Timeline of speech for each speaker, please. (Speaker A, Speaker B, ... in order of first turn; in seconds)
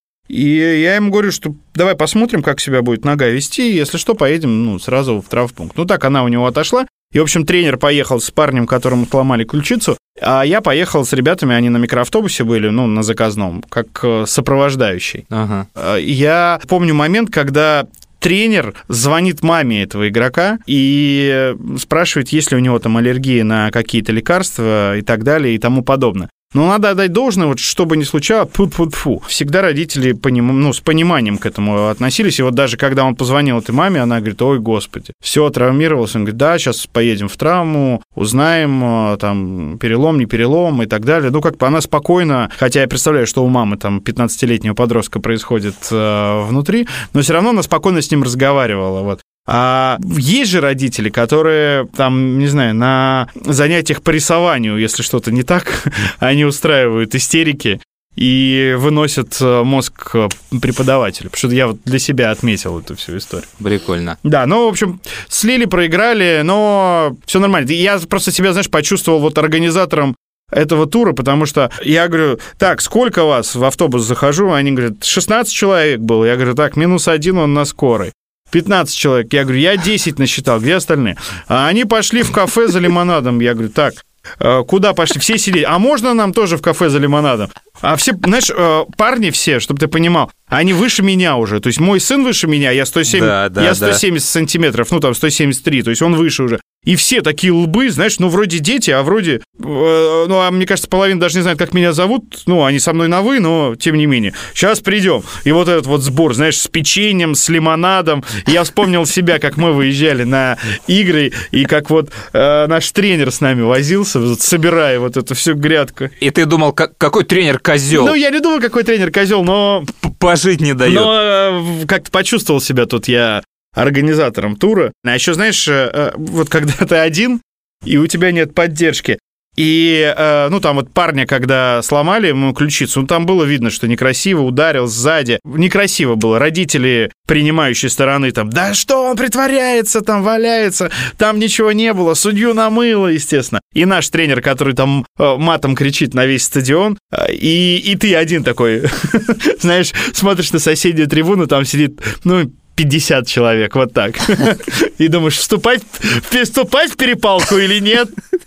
Speaker A: 0.3-15.2, 15.8-63.5, 64.2-116.1, 117.9-119.9, 120.8-158.1
Speaker B: 15.3-15.7, 63.6-64.2, 93.1-94.0, 116.2-118.2, 120.0-121.1